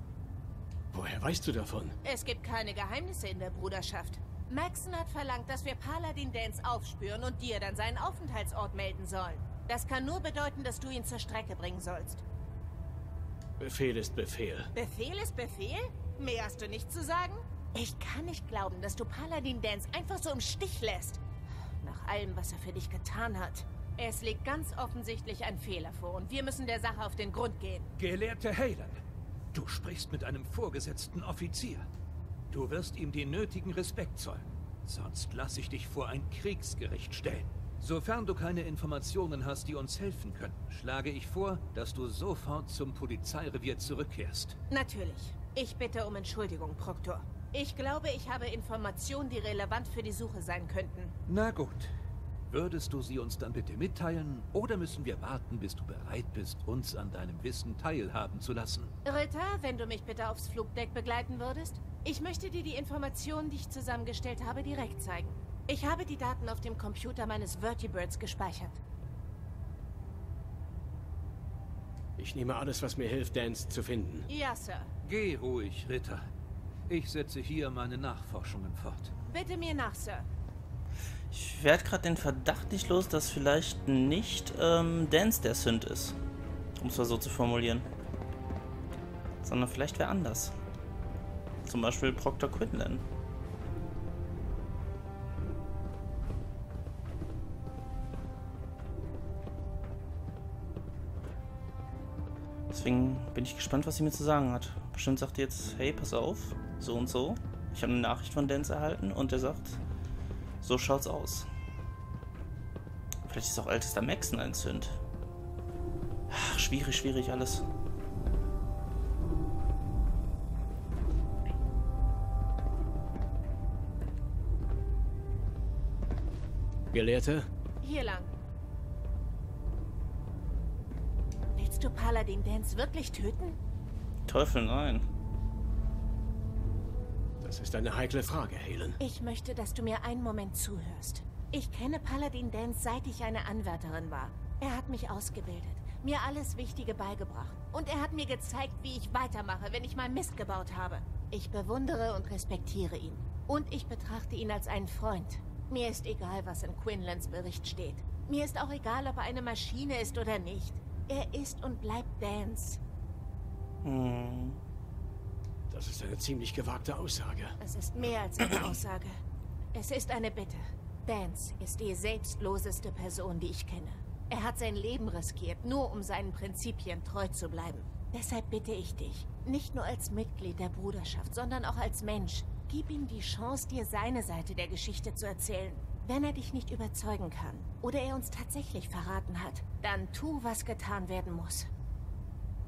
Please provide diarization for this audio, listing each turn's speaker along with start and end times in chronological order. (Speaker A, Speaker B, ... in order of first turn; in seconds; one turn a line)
Speaker A: 0.9-1.9
Speaker B: 2.0-12.2
Speaker A: 13.6-14.7
Speaker B: 14.8-21.2
Speaker B: 21.8-27.9
Speaker C: 28.0-29.0
Speaker C: 29.5-31.9
Speaker C: 32.5-44.6
Speaker B: 44.7-51.1
Speaker C: 51.3-51.9
Speaker C: 52.5-58.9
Speaker B: 59.0-68.8
Speaker A: 72.2-74.3
Speaker B: 74.3-74.9
Speaker C: 75.0-76.2
Speaker C: 76.9-79.1
Speaker B: 79.3-80.3
Speaker D: 81.3-86.2
Speaker D: 86.8-87.9
Speaker D: 89.4-90.5
Speaker D: 91.7-93.0
Speaker D: 102.7-109.8
Speaker D: 110.6-111.5
Speaker D: 113.3-115.0
Speaker D: 116.3-117.6
Speaker A: 126.9-127.5
Speaker B: 127.8-128.3
Speaker B: 131.6-133.6
Speaker D: 134.3-135.1
Speaker A: 137.4-139.0
Speaker B: 139.0-162.8
Speaker D: 163.8-164.6
Speaker A: 165.7-167.6
Speaker B: 167.6-169.2
Speaker B: 169.7-191.7